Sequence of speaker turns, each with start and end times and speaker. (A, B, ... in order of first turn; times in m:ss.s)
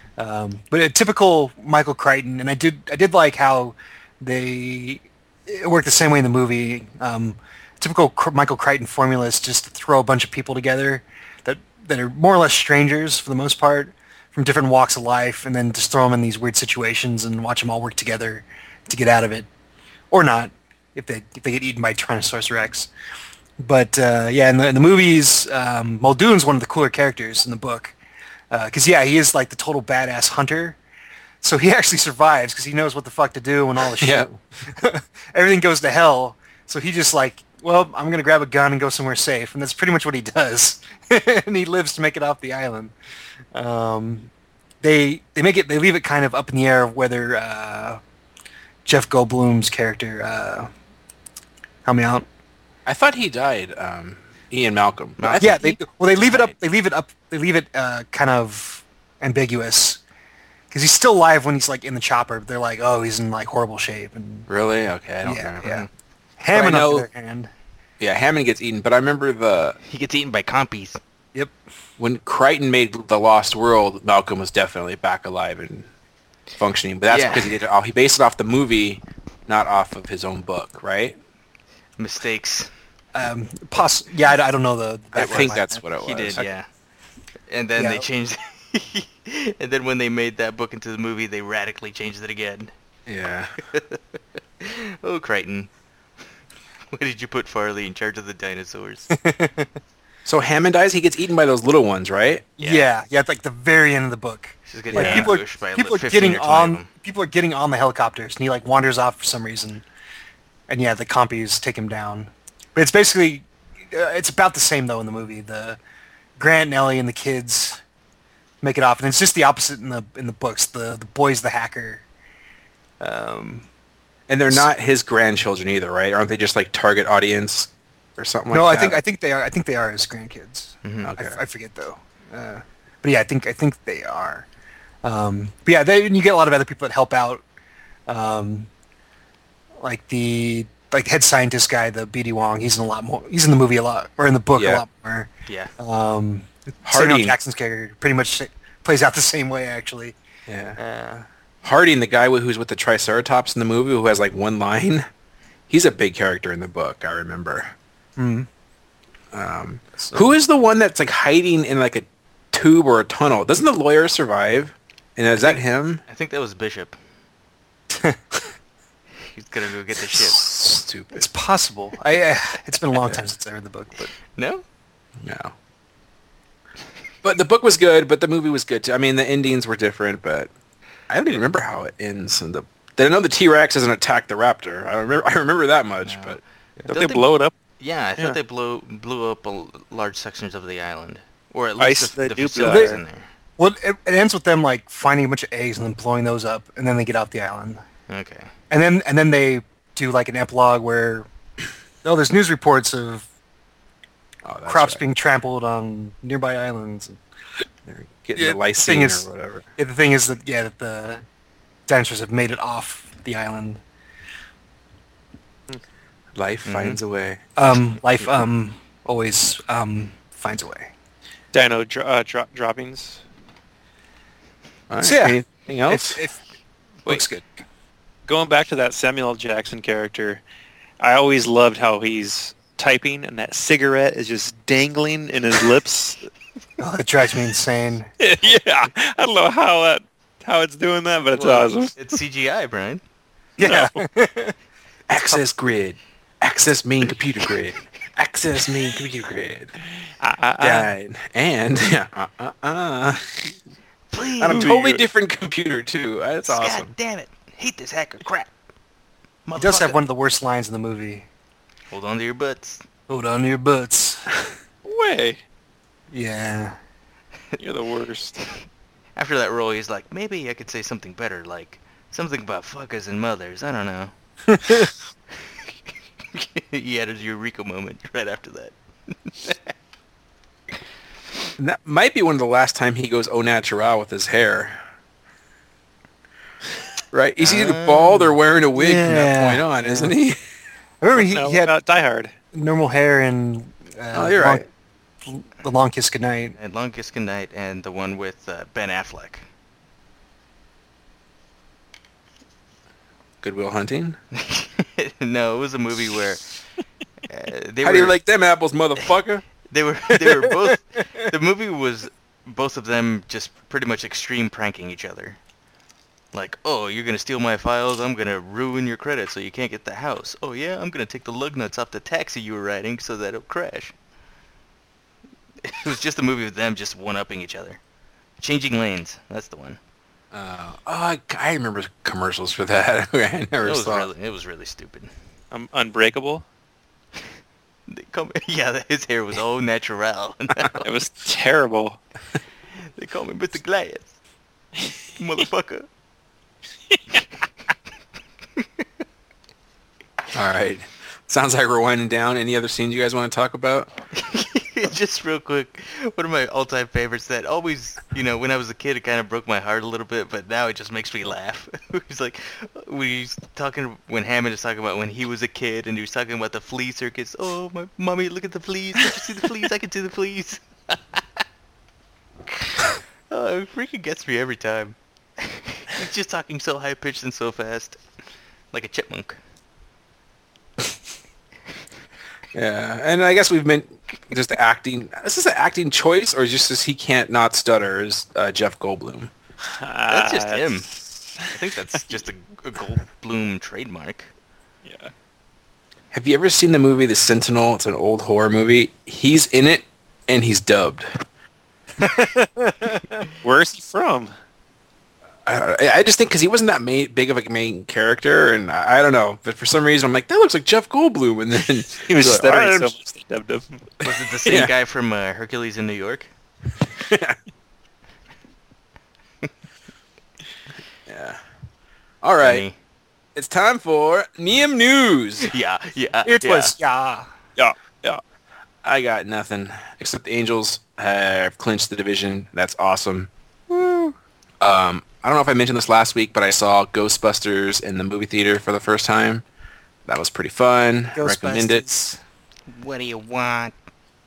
0:00.2-0:19.5 A
0:20.1-0:22.9 A
0:23.6-0:27.9 A
0:28.5-0:30.8 A
0:31.4-0:42.9 A
0:33.8-0:34.4 B
0:43.5-0:44.3 A
0:44.8-0:48.0 A
0:48.8-0:50.7 A
0:51.8-0:52.3 A
0:52.8-0:55.6 B
0:55.2-0:56.5 C
0:55.4-1:00.0 A
1:00.7-1:04.5 A
1:04.5-1:05.7 B
1:05.2-1:05.9 A
1:05.6-1:05.9 C
1:06.4-1:07.5 A
1:06.5-1:07.1 B
1:08.0-1:09.8 B
1:09.9-1:11.0 C
1:12.0-1:15.9 B
1:16.6-1:21.2 B
1:17.1-1:17.6 C
1:22.0-1:22.7 C
1:23.1-1:25.8 A
1:25.1-1:26.4 B
1:25.2-1:26.7 C
1:27.5-1:32.7 C
1:27.8-1:28.1 A
1:33.1-1:33.5 B
1:33.7-1:34.0 C
1:34.6-1:35.7 C
1:36.9-1:39.1 C
1:39.2-1:39.7 A
1:40.2-1:42.5 B
1:42.6-1:49.8 A
1:42.6-1:42.8 C
1:44.7-1:46.9 C
1:44.9-1:45.3 B
1:50.7-1:55.8 A
1:56.4-1:57.8 A
1:58.6-2:02.0 A
2:03.0-2:03.7 A
2:04.3-2:09.0 B
2:08.5-2:14.4 A
2:10.8-2:11.1 C
2:11.0-2:11.4 B
2:15.0-2:17.4 A
2:18.1-2:18.7 A
2:19.8-2:30.2 A
2:24.6-2:24.8 B
2:25.5-2:25.7 C
2:26.8-2:27.4 B
2:30.5-2:30.8 B
2:30.8-2:31.2 A
2:31.6-2:35.0 B
2:35.7-2:37.7 B
2:38.2-2:38.5 A
2:39.3-2:46.0 B
2:45.4-2:47.0 C
2:47.9-2:48.2 A
2:49.2-2:50.4 C
2:50.1-2:51.3 B
2:51.1-2:54.1 A
2:54.3-2:54.6 C
2:55.2-2:55.5 B
2:57.2-3:00.5 B
3:01.1-3:06.4 B
3:06.0-3:07.2 C
3:06.8-3:07.5 D
3:07.8-3:13.3 C
3:11.8-3:13.0 D
3:12.6-3:13.0 A
3:13.6-3:17.8 A
3:18.1-3:18.5 C
3:18.7-3:21.3 A
3:22.0-3:23.3 A
3:24.4-3:25.0 B
3:24.7-3:27.2 A
3:27.8-3:29.6 B
3:28.4-3:31.2 A
3:31.9-3:33.8 A
3:36.3-3:37.4 B
3:36.6-3:37.0 C
3:37.6-3:40.9 A
3:41.5-3:43.2 D
3:44.9-3:46.2 B
3:45.0-3:46.4 A
3:47.0-3:47.5 A
3:48.3-3:50.4 D
3:51.0-3:56.3 D
3:56.8-3:58.1 A
3:58.2-4:01.9 D
4:01.3-4:03.0 C
4:03.6-4:04.5 A
4:03.6-4:04.0 D
4:05.1-4:09.7 B
4:10.2-4:10.9 D
4:10.6-4:13.3 B
4:14.1-4:14.7 C
4:14.4-4:16.9 B
4:14.5-4:15.0 D
4:16.4-4:18.5 C
4:19.4-4:20.0 C
4:19.6-4:21.2 A
4:21.9-4:22.8 C
4:23.1-4:24.3 A
4:24.8-4:25.4 D
4:26.1-4:26.8 A
4:27.6-4:28.4 D
4:29.2-4:34.1 C
4:34.5-4:34.9 A
4:36.3-4:39.7 C
4:41.6-4:44.8 B
4:47.1-4:50.4 B
4:47.4-4:48.4 C
4:48.8-4:50.1 A
4:51.0-4:51.7 A
4:51.1-4:52.3 D
4:52.5-4:54.6 A
4:54.1-4:54.6 B
4:55.2-4:56.6 A
4:56.6-4:59.4 C
5:03.4-5:04.2 B
5:04.3-5:06.4 C
5:07.3-5:08.2 C
5:07.8-5:09.4 B
5:09.7-5:15.4 C
5:10.2-5:10.5 A
5:16.3-5:23.9 C
5:25.6-5:27.8 C
5:28.4-5:29.8 C
5:30.3-5:34.1 B
5:33.6-5:35.1 C
5:35.5-5:36.4 D
5:37.9-5:40.8 C
5:40.8-5:42.0 D
5:42.9-5:44.2 C
5:45.2-5:45.9 C
5:50.3-5:53.9 B
5:54.1-6:11.4 C
6:13.3-6:18.0 C
6:18.7-6:19.4 C
6:22.5-6:29.3 B
6:29.8-6:31.5 D
6:30.1-6:30.9 C
6:31.5-6:34.3 C
6:34.8-6:35.1 D
6:36.1-6:41.2 B
6:42.0-6:43.2 A
6:43.4-6:44.3 D
6:45.4-6:52.9 B
6:52.0-6:53.8 D
6:54.0-6:56.3 C
6:54.4-6:54.7 B
6:57.0-6:57.4 B
7:01.0-7:01.4 B
7:02.2-7:02.6 B
7:02.4-7:02.7 C
7:03.3-7:05.5 B
7:05.5-7:06.7 C
7:06.2-7:07.3 A
7:07.6-7:08.2 D
7:08.8-7:13.3 B
7:13.7-7:14.1 A
7:14.6-7:19.4 B
7:20.0-7:21.8 B
7:21.2-7:22.2 A
7:22.7-7:23.7 C